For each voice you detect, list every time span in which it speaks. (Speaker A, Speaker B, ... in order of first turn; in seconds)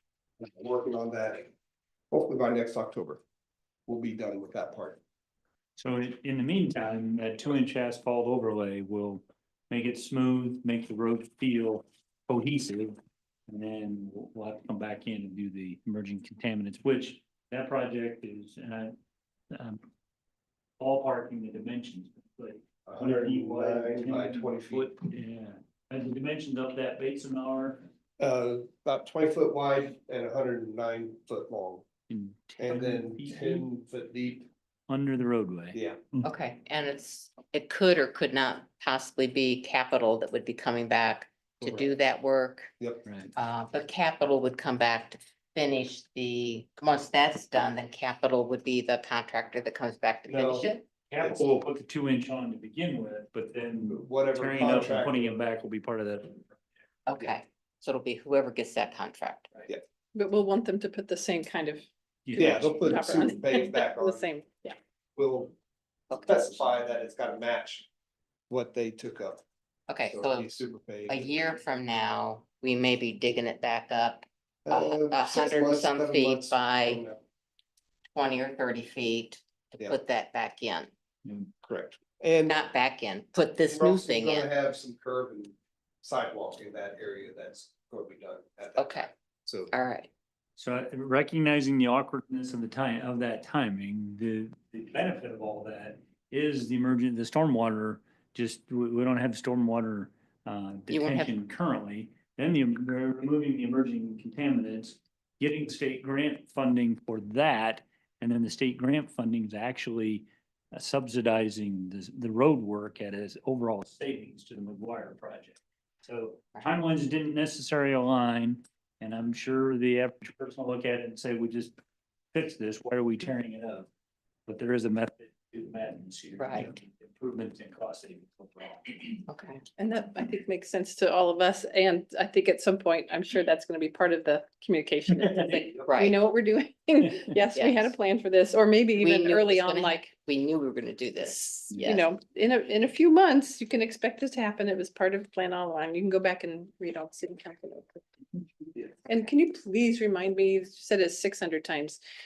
Speaker A: 0.4-1.5, 2.1-3.2, 3.9-5.0, 22.9-24.9, 28.2-31.9, 32.6-34.5, 35.7-36.0, 41.6-41.9, 50.3-51.5, 53.9-55.4, 62.4-64.3, 65.2-65.5, 66.2-67.9, 68.5-69.4, 70.1-71.3, 74.7-77.2, 81.6-82.6, 83.7-89.7
Speaker B: 5.8-12.9, 13.5-18.9, 19.5-19.8, 20.8-27.9, 32.1-33.7, 34.9-36.3, 43.0-43.3, 51.1-56.6, 62.3-63.2, 90.6-121.8, 122.3-123.9, 124.5-129.2, 135.2-135.7
Speaker C: 36.2-42.7, 43.4-50.9, 57.1-59.5, 69.9-70.5, 71.1-77.0, 78.1-80.9, 82.5-84.5, 88.8-89.1, 89.7-90.1, 100.9-101.3, 126.4-126.7, 129.3-129.6, 135.9-136.2, 137.5-137.9, 138.9-142.1
Speaker D: 60.1-64.8, 129.8-140.1, 141.2-148.0, 149.1-152.0